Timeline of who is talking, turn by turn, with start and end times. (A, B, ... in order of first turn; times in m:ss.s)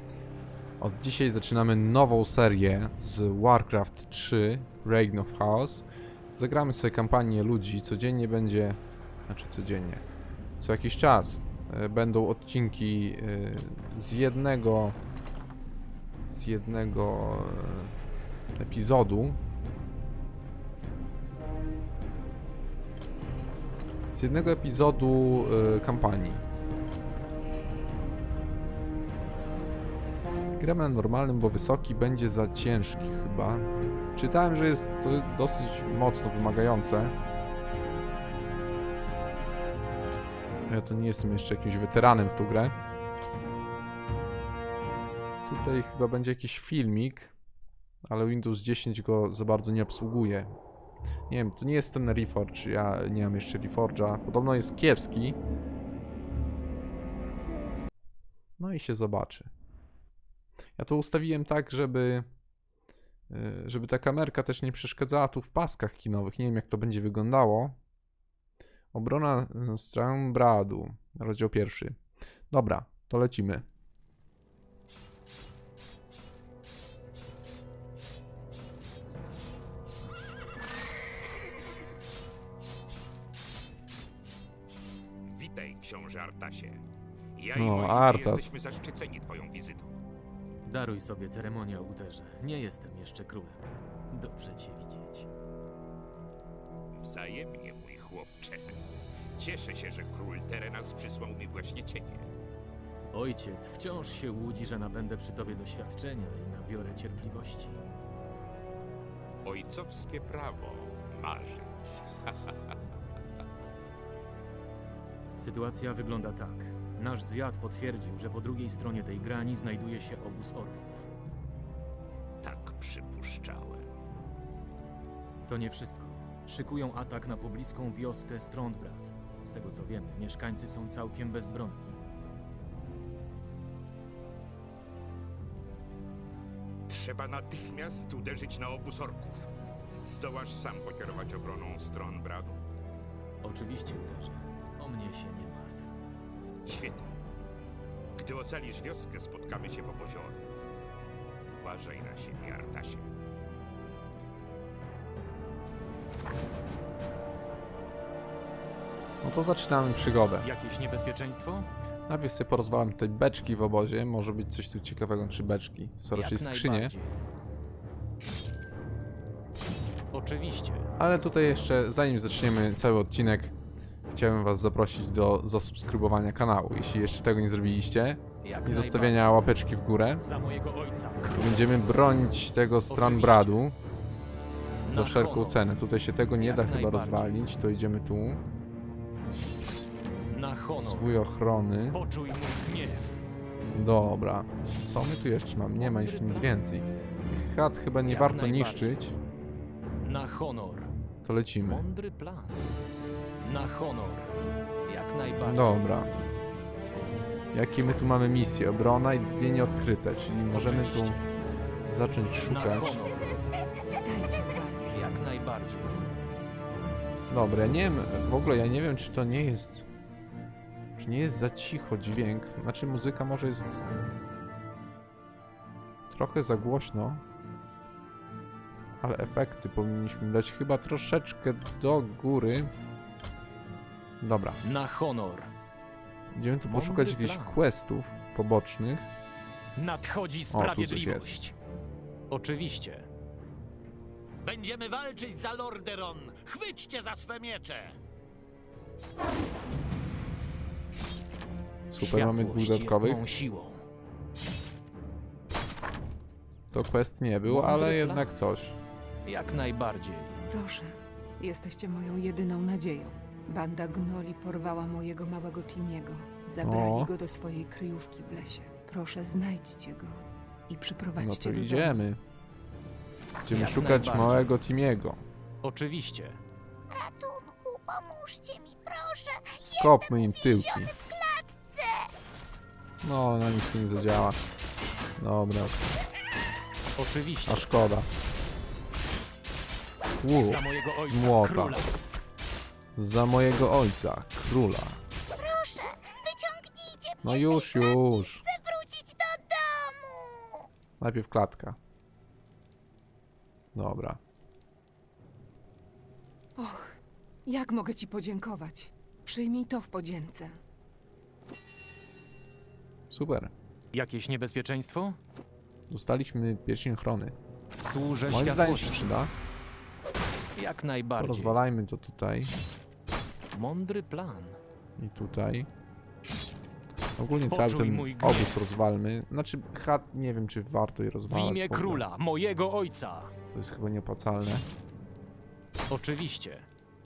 0:00.8-0:10.0 A
0:10.6-0:15.0 A
0:16.3-0:17.9 A
0:18.6-0:19.4 A
0:24.1-0:26.4 A
0:30.6-0:37.1 A
0:40.7-0:42.7 A
0:45.5-0:47.3 A
0:48.0-0:50.5 A
0:51.3-0:55.4 A
0:58.6-0:59.5 A
1:00.8-1:02.3 A
1:03.3-1:07.8 A
1:08.9-1:12.0 A
1:12.5-1:13.6 A
1:25.3-1:26.8 B
1:27.4-1:29.9 B
1:27.5-1:28.5 A
1:30.6-1:35.3 C
1:37.0-1:38.8 B
1:39.4-1:42.3 B
1:43.1-1:47.9 C
1:49.4-1:52.6 B
1:55.4-2:01.1 C
2:02.4-2:03.9 B
2:05.5-2:12.0 C
2:16.9-2:19.5 B
2:20.0-2:22.6 B
2:23.4-2:25.9 C
2:26.7-2:27.1 B
2:28.2-2:30.4 B
2:31.6-2:33.1 B
2:39.2-2:40.5 A
2:40.4-2:41.7 C
2:42.1-2:46.9 A
2:46.1-2:47.2 C
2:50.1-2:50.9 C
2:51.0-2:53.6 A
2:54.1-3:00.2 A
2:58.4-2:59.3 C
3:00.2-3:01.7 C
3:01.3-3:03.8 A
3:02.9-3:03.6 C
3:04.8-3:05.6 C
3:04.9-3:08.4 A
3:06.4-3:07.5 C
3:10.3-3:11.2 C
3:10.8-3:12.0 A
3:11.9-3:13.2 C
3:13.7-3:19.2 A
3:15.8-3:16.6 C
3:18.0-3:19.0 C
3:20.0-3:20.9 C
3:21.2-3:21.8 A
3:21.6-3:22.7 C
3:23.4-3:24.3 C
3:24.9-3:25.9 C
3:25.5-3:26.1 A
3:27.5-3:31.2 A
3:30.5-3:31.2 C
3:31.9-3:33.0 A
3:32.3-3:33.3 C
3:33.9-3:35.1 D
3:34.9-3:36.0 C
3:37.3-3:39.9 A
3:41.0-3:43.8 A
3:46.1-3:47.2 A
3:49.0-3:52.7 A
3:54.2-3:54.6 A
3:54.6-3:55.5 C
3:56.3-3:59.1 A
3:56.6-3:57.6 C
3:59.8-4:01.5 C
4:00.5-4:01.5 A
4:02.3-4:03.1 C
4:04.4-4:08.0 E
4:11.9-4:13.2 A
4:12.0-4:13.8 C
4:16.7-4:18.8 A
4:17.4-4:18.3 C
4:19.3-4:20.4 C
4:20.5-4:32.0 D
4:26.6-4:27.1 A
4:31.2-4:32.2 A
4:33.4-4:35.2 A
4:33.5-4:34.5 C
4:35.6-4:36.4 C
4:36.9-4:42.1 F
4:39.6-4:40.9 A
4:43.0-4:44.4 A
4:45.2-4:45.8 A
4:47.0-4:47.7 C
4:47.5-4:48.1 A
4:50.2-4:51.8 A
4:50.3-4:52.0 C
4:53.0-4:55.0 A
4:55.3-5:00.7 F
4:57.2-4:58.5 A
5:01.0-5:01.8 A
5:03.7-5:04.2 A
5:06.6-5:06.9 D
5:07.5-5:10.6 D
5:13.1-5:13.5 A
5:13.9-5:15.2 C
5:15.9-5:17.4 A
5:17.8-5:19.1 C
5:18.3-5:19.3 A
5:20.6-5:21.6 C
5:21.2-5:22.6 A
5:23.5-5:24.6 C
5:25.0-5:25.7 A
5:27.2-5:32.1 A
5:27.5-5:28.5 C
5:31.3-5:33.3 C
5:33.5-5:34.7 A
5:35.9-5:36.7 C